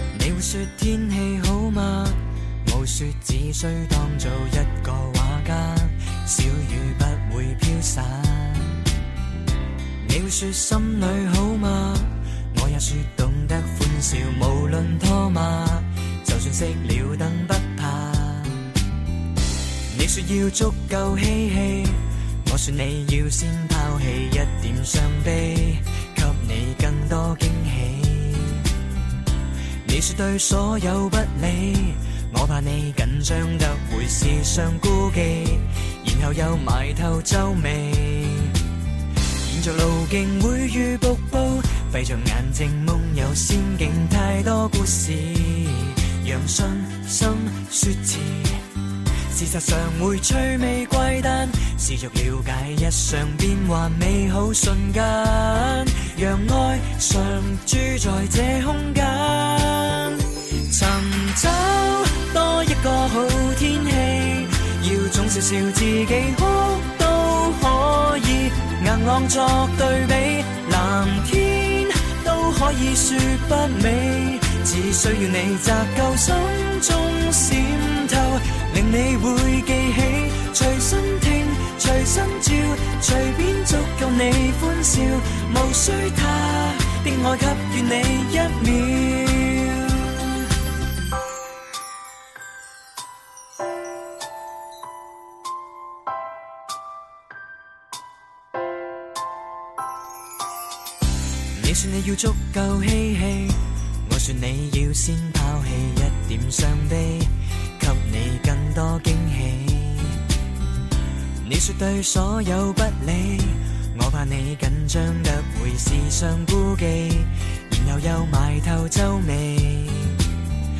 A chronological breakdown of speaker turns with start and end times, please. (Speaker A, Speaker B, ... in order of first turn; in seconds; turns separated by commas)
Speaker A: 0.1-8.8, Speaker A: 10.0-18.7, Speaker A: 19.9-28.6, Speaker A: 29.8-38.5, Speaker A: 39.4-48.6, Speaker A: 49.3-90.2, Speaker A: 101.5-110.2, Speaker A: 111.4-120.2